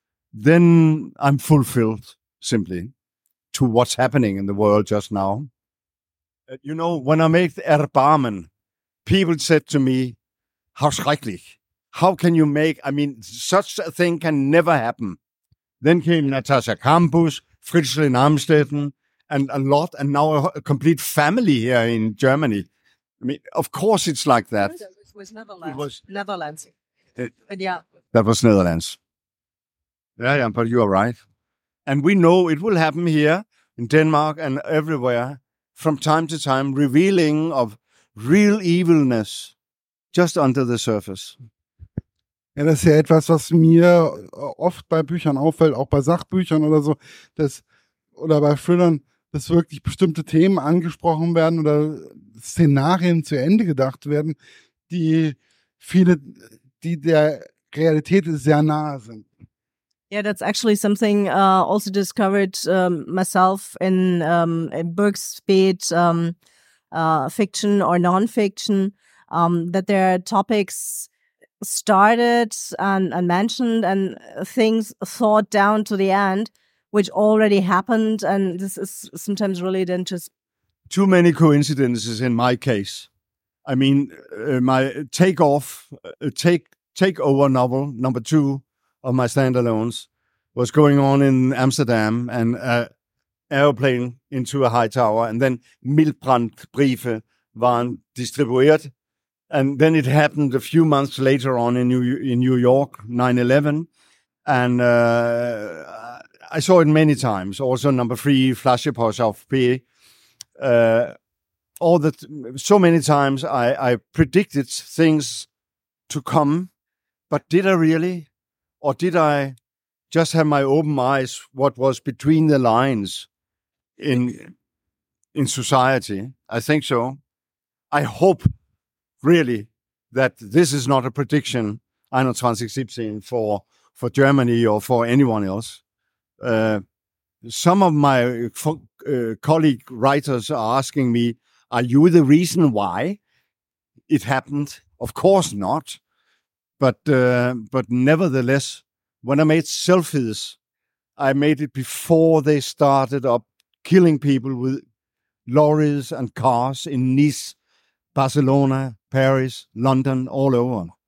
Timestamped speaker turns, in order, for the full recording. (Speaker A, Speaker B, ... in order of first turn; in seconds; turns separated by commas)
Speaker A: 0.3-2.9, Speaker A: 3.5-5.5, Speaker A: 6.5-8.5, Speaker A: 9.0-10.2, Speaker A: 10.8-15.2, Speaker A: 15.8-22.7, Speaker A: 23.2-24.8, Speaker B: 24.7-26.7, Speaker A: 25.6-25.9, Speaker B: 27.5-27.8, Speaker A: 28.1-29.0, Speaker A: 30.2-31.2, Speaker A: 31.9-39.5, Speaker A: 40.1-41.4, Speaker C: 42.5-47.6, Speaker C: 48.1-54.4, Speaker C: 54.9-59.3, Speaker B: 60.1-66.3, Speaker B: 66.9-71.1, Speaker B: 71.6-80.3, Speaker A: 80.9-83.1, Speaker A: 83.7-92.9, Speaker A: 93.5-98.9, Speaker A: 99.5-103.9, Speaker A: 104.5-109.8, Speaker A: 110.6-111.1, Speaker A: 111.8-115.5, Speaker A: 116.1-116.7, Speaker A: 117.3-118.3, Speaker A: 118.8-119.5, Speaker A: 120.1-123.3, Speaker A: 124.0-124.5, Speaker A: 125.3-127.2, Speaker A: 127.9-128.5, Speaker A: 129.2-135.8, Speaker A: 136.4-136.8, Speaker A: 137.4-143.2, Speaker A: 144.1-146.0, Speaker A: 146.8-150.6, Speaker A: 151.2-154.8, Speaker A: 155.5-157.6, Speaker A: 158.1-160.9